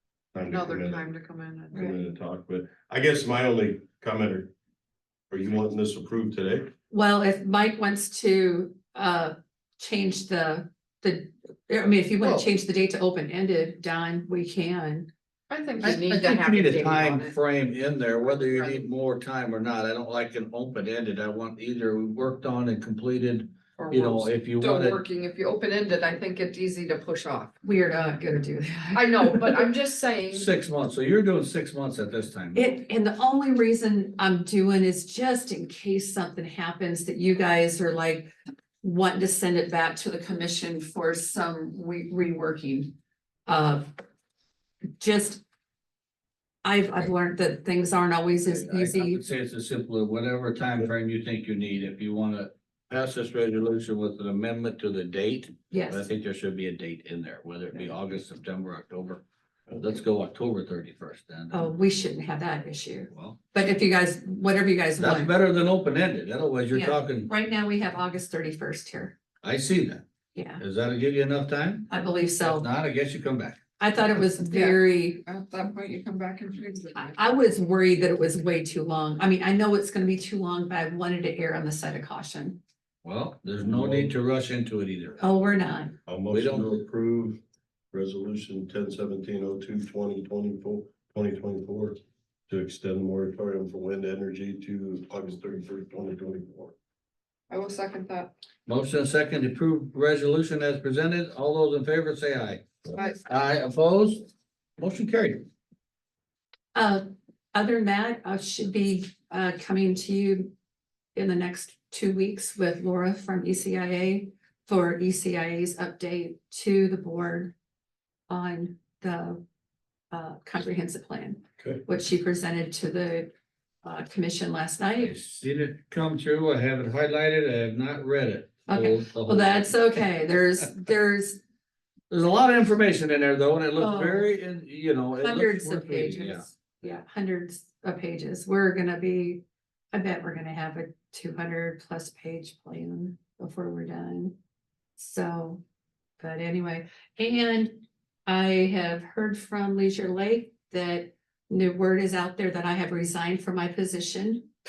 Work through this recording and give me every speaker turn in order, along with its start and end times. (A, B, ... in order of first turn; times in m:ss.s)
0:00.3-0:01.1 A
0:00.5-0:01.9 B
0:01.7-0:04.5 A
0:05.3-0:06.7 A
0:06.9-0:15.1 C
0:15.5-0:17.4 B
0:15.8-0:25.0 D
0:18.2-0:18.8 B
0:23.8-0:27.6 B
0:27.6-0:29.7 C
0:28.9-0:30.5 B
0:30.3-0:32.7 D
0:32.6-0:38.3 C
0:38.8-0:42.9 C
0:43.5-0:43.9 C
0:45.0-0:45.4 C
0:46.6-0:49.2 C
0:48.5-0:59.2 D
0:55.7-0:56.1 C
0:59.8-1:01.7 D
1:01.5-1:05.3 C
1:03.1-1:03.4 D
1:05.0-1:07.3 D
1:06.7-1:09.2 C
1:09.4-1:10.0 D
1:10.3-1:10.6 C
1:10.6-1:13.6 D
1:11.9-1:12.7 C
1:13.8-1:15.2 C
1:14.4-1:17.2 B
1:17.0-1:22.6 C
1:23.0-1:25.2 D
1:23.6-1:24.1 A
1:25.2-1:26.0 C
1:26.1-1:27.4 A
1:26.3-1:26.7 D
1:27.9-1:36.8 A
1:37.5-1:38.3 B
1:38.7-1:45.4 D
1:46.8-1:50.5 C
1:51.2-1:57.5 C
1:58.3-1:59.4 C
2:00.1-2:03.3 C
2:01.6-2:01.8 A
2:03.8-2:05.1 C
2:05.0-2:10.0 D
2:08.7-2:11.4 C
2:12.1-2:16.5 D
2:13.8-2:14.3 C
2:15.2-2:24.4 C
2:25.0-2:25.6 C
2:26.2-2:34.5 C